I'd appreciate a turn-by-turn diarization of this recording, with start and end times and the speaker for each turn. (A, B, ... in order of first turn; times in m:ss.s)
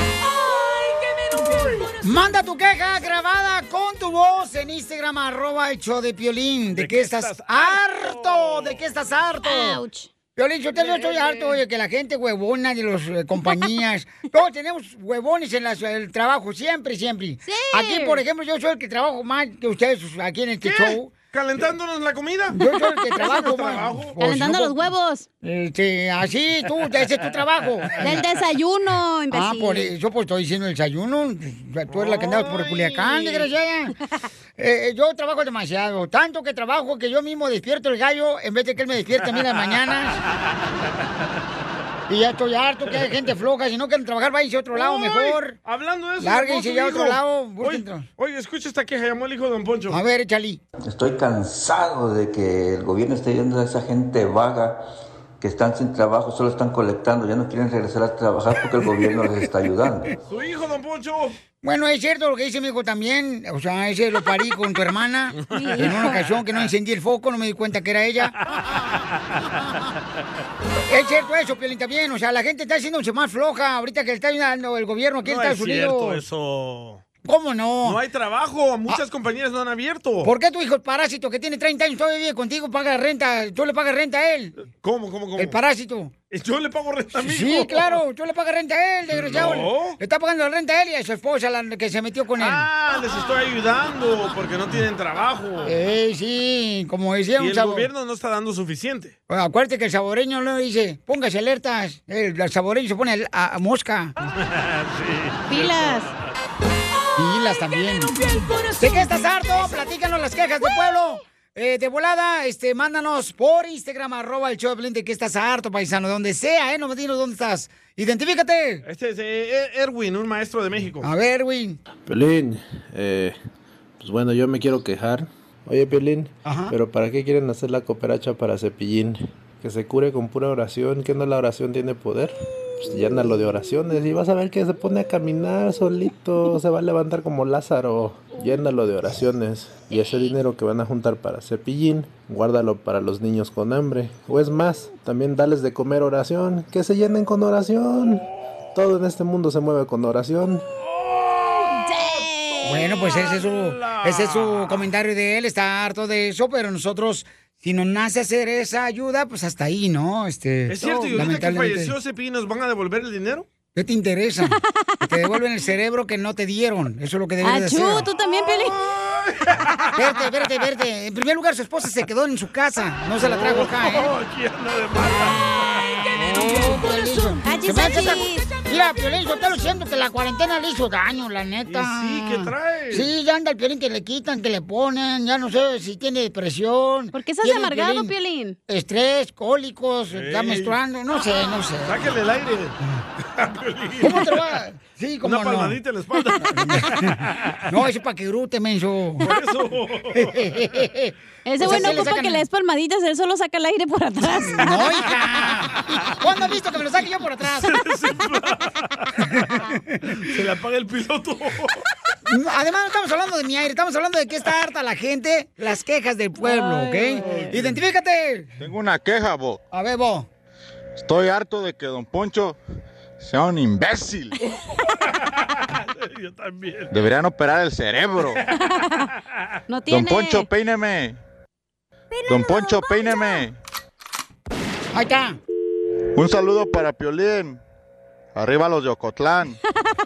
0:00.3-0:02.0 A
0:02.0-0:09.8 B
0:06.7-0:08.8 C
0:09.4-0:10.1 A
0:10.4-0:21.1 B
0:17.4-0:18.2 A
0:20.6-0:22.6 C
0:22.5-0:24.8 B
0:23.2-0:23.6 A
0:23.2-0:24.2 C
0:24.2-0:25.3 A
0:25.4-0:28.2 B
0:28.0-0:29.9 A
0:29.3-0:33.9 B
0:31.9-0:33.5 C
0:34.6-0:40.2 B
0:42.1-0:45.6 B
0:44.7-0:50.0 C
0:46.2-0:48.1 B
0:49.9-0:50.6 B
0:50.8-0:54.8 D
0:55.4-1:00.1 D
1:00.3-1:01.4 C
1:01.6-1:08.3 B
1:05.5-1:06.3 A
1:08.5-1:08.8 C
1:10.9-1:16.2 B
1:15.2-1:17.0 C
1:17.2-1:18.0 B
1:17.8-1:20.3 C
1:20.2-1:24.5 B
1:24.6-1:25.6 C
1:25.4-1:26.1 B
1:26.3-1:28.0 C
1:27.2-1:32.6 B
1:29.1-1:30.0 C
1:32.4-1:35.8 C
1:35.6-1:37.9 B
1:37.4-1:39.1 C
1:39.3-1:44.1 B
1:44.4-1:46.2 C
1:45.5-1:46.1 A
1:47.2-1:48.1 B
1:48.2-1:49.0 A
1:48.8-1:58.8 B
1:58.8-2:01.0 C
2:01.0-2:01.8 B
2:02.0-2:03.4 E
2:04.0-2:30.6 E
2:06.4-2:06.7 B
2:30.9-2:34.9 C
2:31.8-2:32.8 A
2:32.6-2:41.9 B
2:40.7-2:43.5 C
2:40.8-2:41.1 A
2:43.7-2:48.1 B
2:44.6-2:45.1 A
2:47.4-2:48.8 A
2:48.4-2:49.8 C
2:50.0-2:54.1 B
2:53.2-2:56.8 C
2:56.1-3:08.1 B
2:57.4-2:58.6 A
3:01.7-3:03.1 C
3:07.1-3:08.6 A
3:08.7-3:12.0 B
3:10.1-3:10.8 C
3:11.8-3:12.8 C
3:13.4-3:14.4 C
3:14.0-3:15.8 B
3:15.2-3:17.6 C
3:16.6-3:17.1 B
3:17.7-3:19.3 B
3:19.2-3:20.5 C
3:20.2-3:22.4 B
3:21.4-3:25.1 A
3:24.4-3:27.8 B
3:27.5-3:29.2 C
3:29.4-3:29.8 B
3:30.1-3:31.8 C
3:32.3-3:38.5 B
3:36.4-3:37.5 A
3:37.2-3:37.7 C
3:38.6-3:39.6 F
3:39.7-3:40.3 B
3:41.0-3:42.6 F
3:43.2-3:44.4 F
3:45.6-3:46.9 C
3:46.9-3:48.4 F
3:48.6-3:49.1 A
3:49.7-3:50.5 A
3:49.9-3:51.2 F
3:52.3-3:53.5 F
3:54.9-3:55.4 B
3:56.1-3:57.6 F
3:58.3-3:59.6 F